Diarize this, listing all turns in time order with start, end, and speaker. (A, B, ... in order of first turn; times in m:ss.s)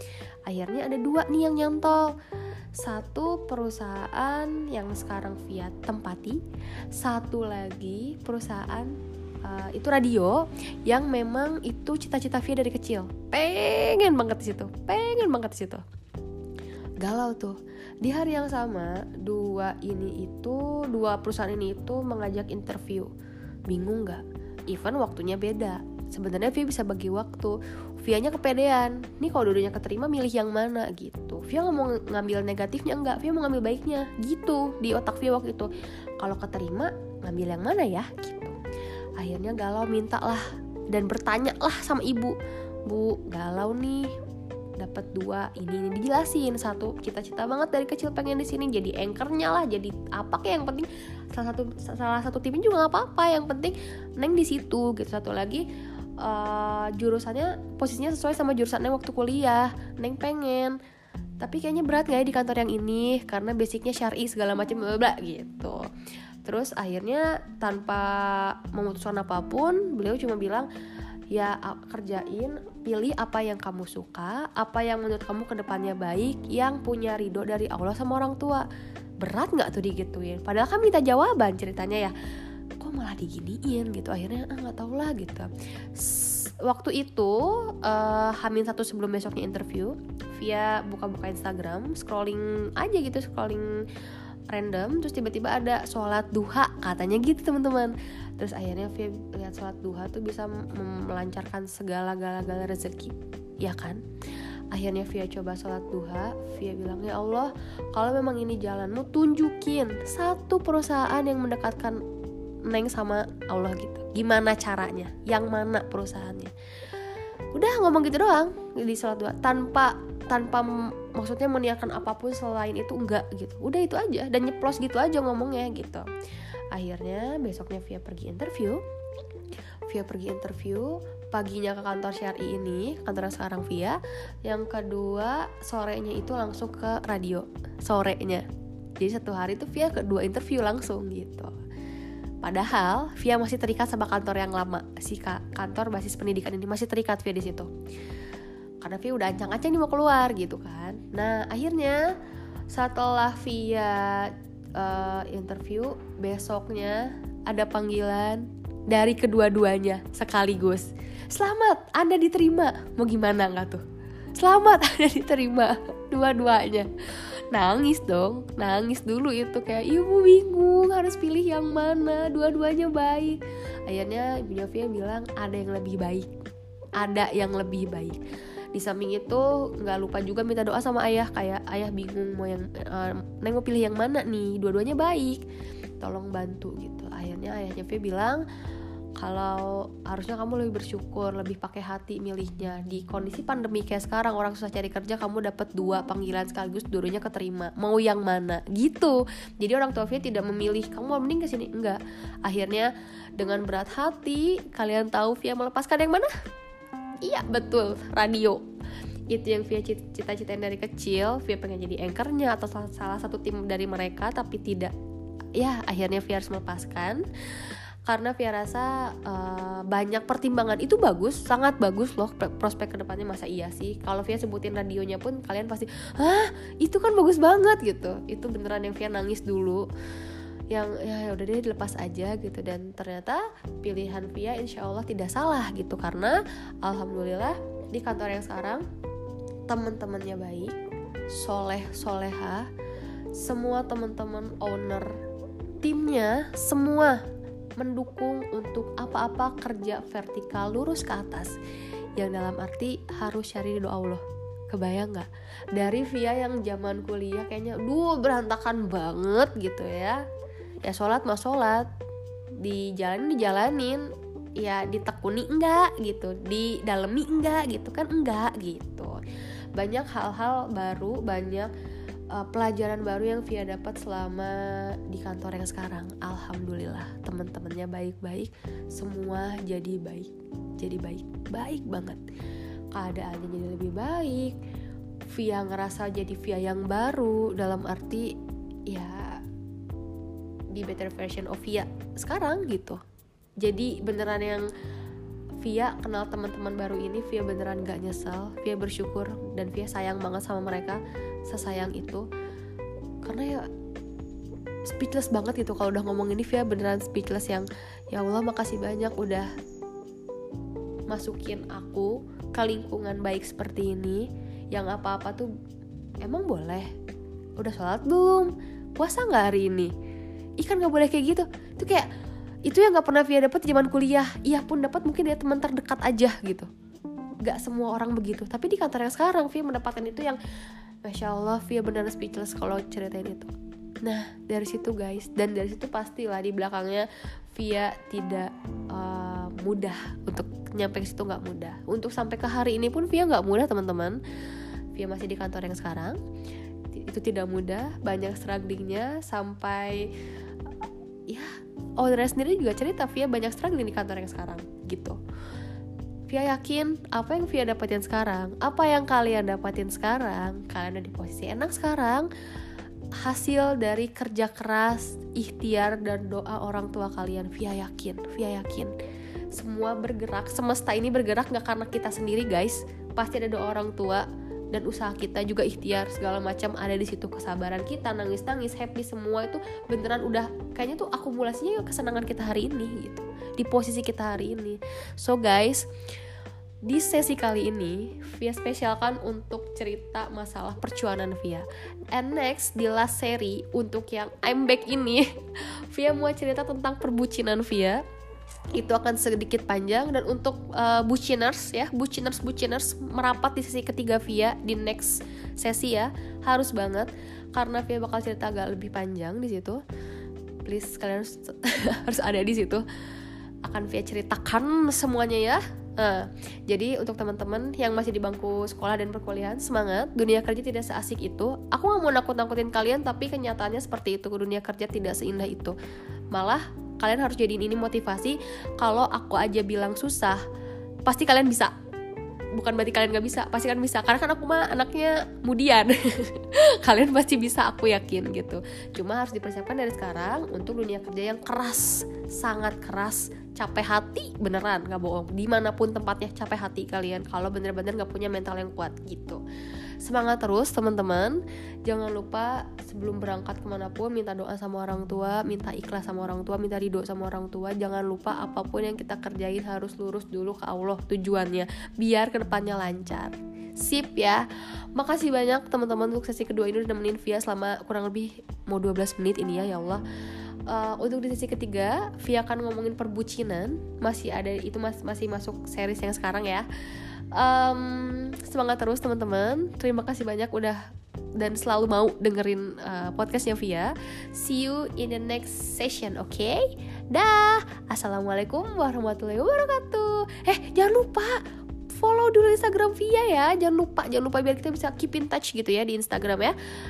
0:00.5-0:02.1 A
0:02.8-0:06.4 A
0:06.9-0:15.8 A
0:17.0-0:23.1 A
0:23.7-0:38.6 A
0:39.2-0:42.4 A
0:42.9-0:44.1 A
0:44.8-0:55.7 A
0:56.2-1:00.8 A
1:01.4-1:05.9 A
1:06.4-1:10.7 A
1:11.3-1:18.7 A
1:19.2-1:22.1 A
1:22.8-1:33.8 A
1:34.5-1:44.0 A
1:44.7-1:52.0 A
1:52.7-1:56.5 A
1:57.5-2:06.1 A
2:06.7-2:08.8 A
2:09.9-2:18.4 A
2:19.0-2:21.6 A
2:22.4-2:27.7 A
2:28.8-2:32.1 A
2:32.7-2:43.8 A
2:44.4-2:46.9 A
2:47.5-2:56.3 A
2:57.0-2:58.2 A
2:58.7-3:05.4 A
3:06.0-3:08.4 A
3:09.2-3:26.3 A
3:27.2-3:28.7 A
3:29.3-3:34.9 A
3:35.6-3:37.2 A
3:38.1-3:49.9 A
3:50.7-3:58.8 A
3:59.7-4:00.8 A
4:01.3-4:02.7 A
4:03.3-4:05.2 A
4:05.8-4:07.2 A
4:07.8-4:11.6 A
4:12.2-4:20.2 A
4:20.8-4:21.9 A
4:22.6-4:29.2 A
4:29.8-4:31.7 A
4:32.3-4:42.2 A
4:42.9-4:44.6 A
4:45.3-4:48.4 A
4:48.9-4:49.4 A
4:50.7-4:53.0 A
4:53.6-4:54.7 A
4:55.6-5:02.3 A
5:03.2-5:03.7 A
5:04.9-5:09.5 A
5:11.1-5:15.5 A
5:16.2-5:16.9 A
5:17.6-5:19.9 A
5:20.6-5:22.1 A
5:22.6-5:26.7 A
5:27.4-5:30.4 A
5:31.0-5:33.5 A
5:34.0-5:44.2 A
5:44.9-5:46.2 A
5:46.9-5:50.1 A
5:51.3-5:55.2 A
5:56.3-6:02.3 A
6:03.2-6:08.9 A
6:09.5-6:25.9 A
6:26.8-6:38.0 A
6:38.8-6:49.8 A
6:50.6-6:52.8 A
6:53.6-7:05.8 A
7:06.3-7:10.4 A
7:11.1-7:11.7 A
7:12.6-7:29.4 A
7:30.0-7:50.0 A
7:50.7-7:56.7 A
7:57.4-8:00.8 A
8:01.4-8:16.6 A